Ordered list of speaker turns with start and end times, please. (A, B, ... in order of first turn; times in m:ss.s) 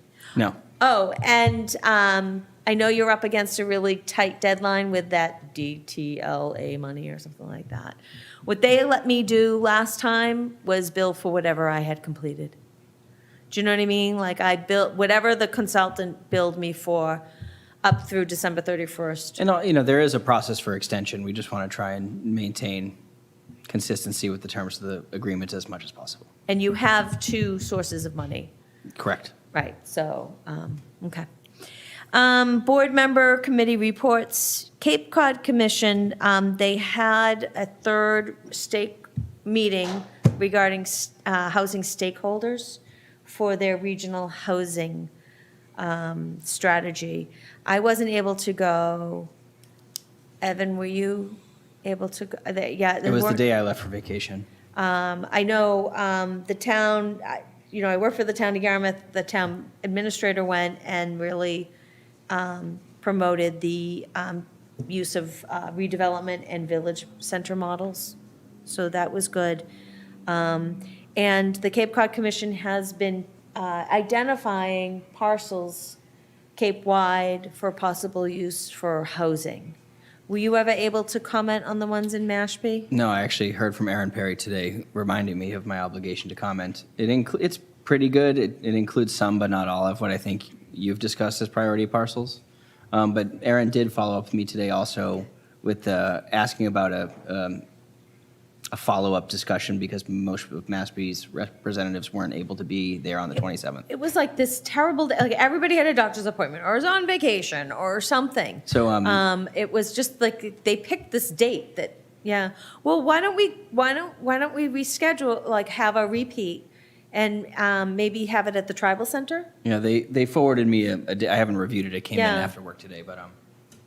0:00.8-0:12.6 A
0:13.5-0:17.2 A
0:17.8-0:19.4 A
0:19.4-0:22.9 B
0:23.7-0:26.3 B
0:26.5-0:28.5 A
0:29.0-0:29.3 B
0:29.5-0:31.2 A
0:32.1-0:45.1 A
0:45.8-0:49.3 A
0:50.4-0:53.4 A
0:53.0-0:54.5 B
0:54.8-1:01.7 A
1:02.3-1:09.6 A
1:10.3-1:16.0 A
1:16.6-1:19.8 A
1:20.3-1:22.9 A
1:22.9-1:37.6 B
1:38.7-1:43.8 B
1:43.9-1:59.5 A
1:48.6-1:49.2 B
1:59.6-2:03.3 B
2:02.1-2:02.5 A